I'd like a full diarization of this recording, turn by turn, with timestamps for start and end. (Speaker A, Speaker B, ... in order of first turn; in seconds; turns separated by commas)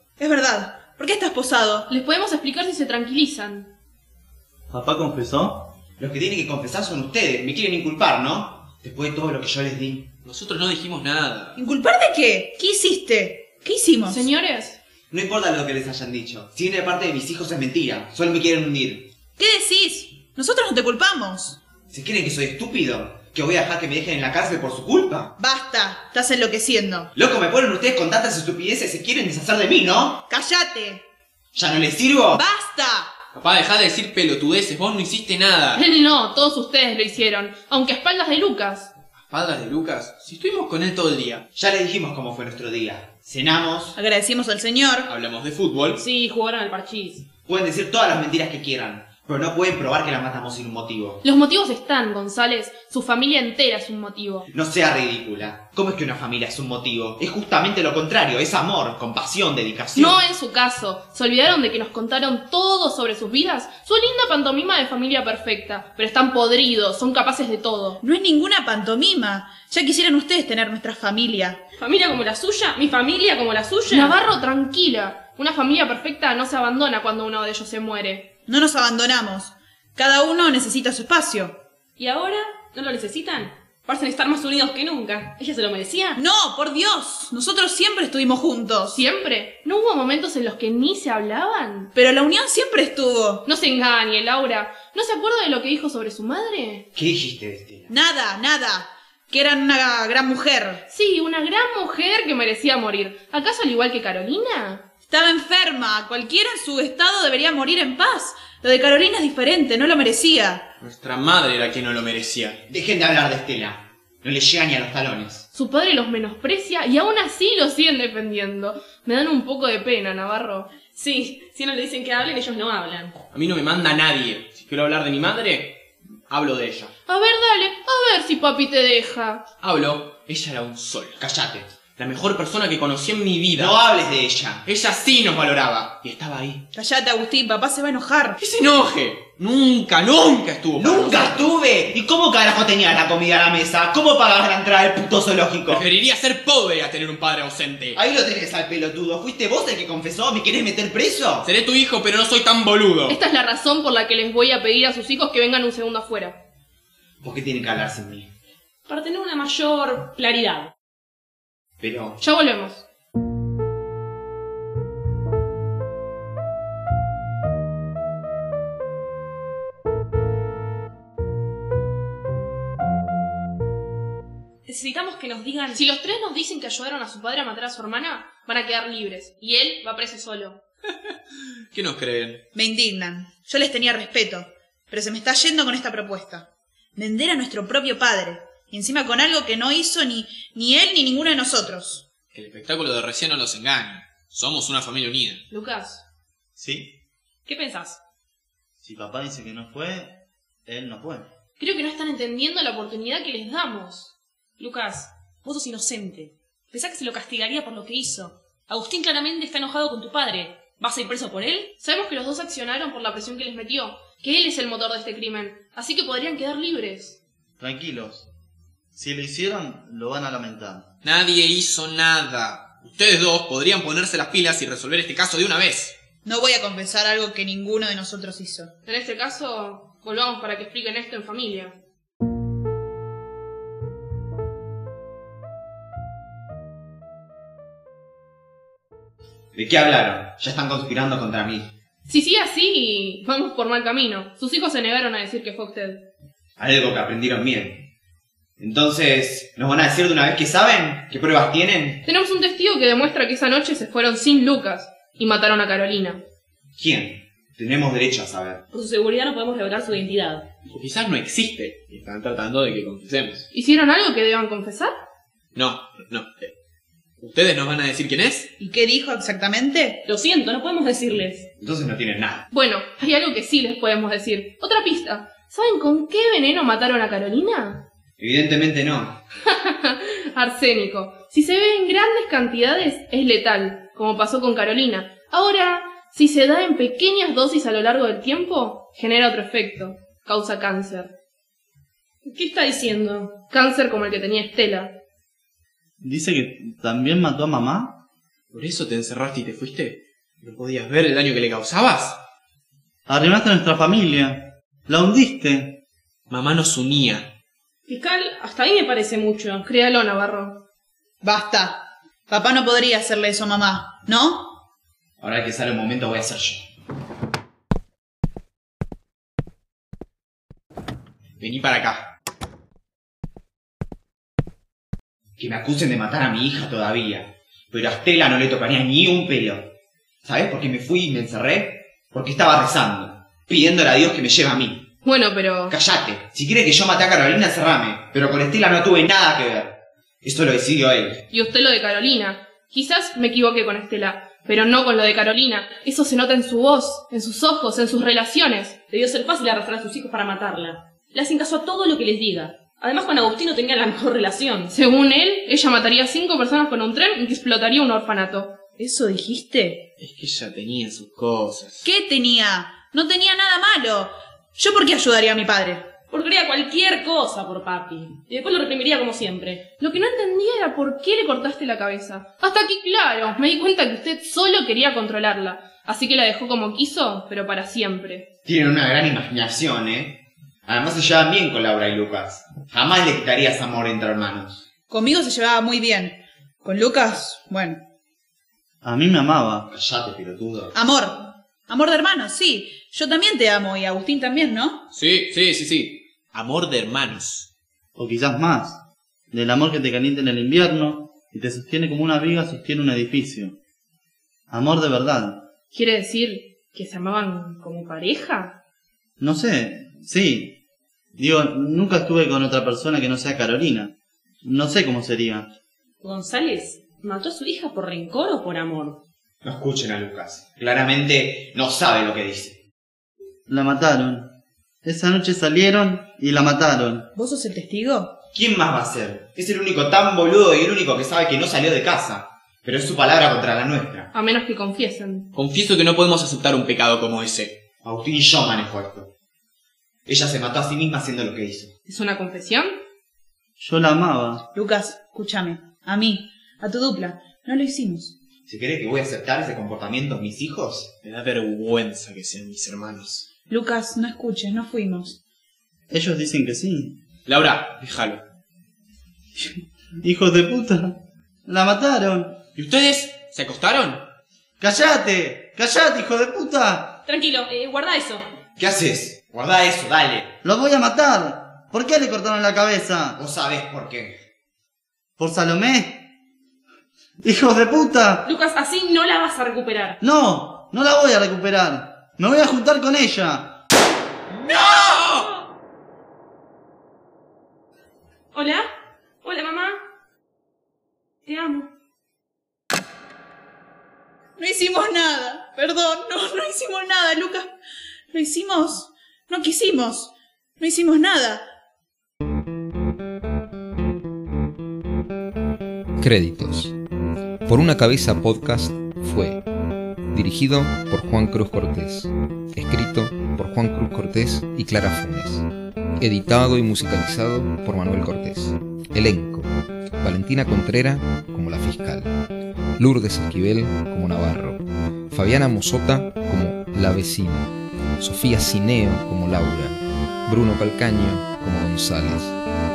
Speaker A: 0.2-1.9, Speaker B: 1.9-3.7, Speaker C: 4.7-5.7, Speaker D: 6.0-10.1, Speaker E: 10.2-11.5, Speaker A: 11.6-14.3, Speaker B: 14.1-14.8, Speaker D: 15.1-19.1, Speaker A: 19.4-21.6, Speaker D: 21.9-25.4, Speaker A: 25.4-27.1, Speaker D: 27.1-30.2, Speaker A: 30.3-31.0, Speaker D: 31.5-32.4, Speaker A: 32.3-33.1, Speaker E: 33.4-35.7, Speaker B: 35.7-38.9, Speaker E: 39.3-41.4, Speaker D: 41.5-44.0, Speaker A: 44.0-45.2, Speaker E: 45.1-46.0, Speaker F: 45.9-47.2, Speaker D: 47.5-51.2, Speaker B: 51.2-54.5, Speaker D: 54.5-60.2, Speaker B: 59.9-68.0, Speaker A: 68.0-71.6, Speaker F: 71.8-74.2, Speaker B: 73.9-78.3, Speaker A: 78.5-81.5, Speaker F: 82.0-86.2, Speaker A: 86.2-89.0, Speaker B: 88.9-91.9, Speaker A: 91.9-93.4, Speaker B: 93.5-96.8, Speaker D: 96.9-97.9, Speaker A: 97.9-100.8, Speaker B: 100.9-104.8, Speaker A: 105.1-110.6, Speaker E: 110.8-112.6, Speaker D: 112.7-115.5, Speaker B: 115.5-120.7, Speaker F: 120.9-123.1, Speaker E: 123.3-125.8, Speaker E: 126.3-126.9, Speaker B: 127.1-129.4, Speaker E: 129.6-131.2, Speaker D: 131.2-131.7, Speaker E: 132.0-133.7, Speaker D: 133.5-134.6, Speaker E: 134.7-136.6, Speaker A: 136.7-138.4, Speaker E: 138.4-141.5, Speaker D: 140.7-145.8, Speaker E: 145.7-148.0, Speaker D: 147.9-151.5, Speaker E: 151.4-153.2, Speaker B: 153.1-156.4, Speaker D: 157.2-158.3, Speaker F: 158.9-160.7, Speaker D: 161.8-162.2, Speaker B: 162.2-162.8, Speaker F: 174.7-175.8, Speaker B: 175.7-180.6, Speaker E: 181.7-182.4, Speaker A: 182.5-192.0, Speaker E: 192.3-195.4, Speaker B: 195.5-196.0, Speaker C: 196.6-196.9, Speaker F: 197.5-198.0, Speaker C: 198.8-201.3, Speaker B: 201.6-204.1, Speaker F: 204.6-211.7, Speaker B: 211.8-217.2, Speaker C: 217.6-218.3, Speaker C: 218.9-220.9, Speaker E: 221.0-225.9, Speaker A: 226.2-228.7, Speaker B: 228.8-231.7, Speaker D: 239.5-241.7, Speaker B: 242.1-246.0, Speaker D: 246.6-247.9, Speaker D: 248.6-252.0, Speaker B: 252.0-256.2, Speaker D: 256.8-258.6, Speaker F: 258.7-260.4, Speaker E: 260.7-263.4, Speaker B: 263.5-264.9, Speaker E: 265.6-266.5, Speaker E: 267.2-268.5, Speaker A: 268.6-270.0, Speaker F: 270.1-271.5, Speaker D: 271.6-272.4, Speaker B: 272.5-277.8, Speaker D: 278.2-279.2, Speaker B: 279.5-291.1, Speaker F: 292.2-293.4, Speaker B: 293.5-294.9, Speaker C: 296.0-298.0, Speaker E: 298.5-302.2, Speaker C: 303.1-305.8, Speaker E: 306.3-307.2, Speaker F: 307.9-309.6, Speaker B: 309.6-310.6, Speaker A: 311.2-314.6, Speaker D: 315.2-316.6, Speaker E: 321.4-321.9, Speaker D: 325.4-329.7, Speaker D: 330.2-334.9, Speaker B: 335.0-335.8, Speaker D: 335.7-341.2, Speaker B: 341.3-348.8, Speaker F: 348.9-354.7, Speaker B: 354.7-358.6, Speaker A: 358.8-359.9, Speaker E: 360.0-361.8, Speaker A: 361.8-365.9, Speaker F: 366.1-369.7, Speaker B: 369.8-378.3, Speaker D: 378.4-384.6, Speaker A: 384.9-387.8, Speaker C: 388.8-389.7, Speaker D: 389.7-390.8, Speaker A: 390.7-394.9, Speaker E: 394.9-397.4, Speaker C: 397.9-398.8, Speaker C: 399.3-403.6, Speaker C: 404.5-405.4, Speaker B: 405.7-408.5, Speaker C: 409.2-410.6, Speaker C: 411.1-415.5, Speaker F: 416.0-419.0, Speaker D: 419.4-422.6, Speaker C: 423.5-424.3, Speaker C: 424.8-427.1, Speaker A: 427.1-428.1, Speaker D: 428.3-434.1, Speaker B: 434.1-435.3, Speaker E: 435.4-437.5, Speaker D: 437.8-439.1, Speaker D: 440.1-441.7, Speaker B: 441.9-442.8, Speaker C: 443.6-444.4, Speaker A: 444.5-448.1, Speaker D: 448.4-450.9, Speaker E: 451.0-453.2, Speaker A: 453.5-455.2, Speaker C: 455.9-457.0, Speaker E: 457.3-458.2, Speaker C: 459.4-460.9, Speaker C: 461.5-462.4, Speaker E: 462.6-464.0, Speaker C: 464.6-467.0, Speaker F: 467.1-468.2, Speaker D: 468.6-470.3, Speaker C: 470.4-473.2, Speaker D: 473.2-474.2, Speaker C: 475.2-476.1, Speaker C: 477.2-478.3, Speaker F: 478.2-480.0, Speaker C: 480.0-483.6, Speaker F: 484.5-485.3, Speaker F: 488.3-488.6, Speaker F: 489.2-489.7, Speaker F: 491.2-491.7, Speaker A: 494.4-497.6, Speaker A: 498.1-501.4, Speaker G: 506.0-506.7, Speaker G: 507.4-509.4, Speaker G: 510.1-515.5, Speaker G: 516.0-522.1, Speaker G: 522.8-532.4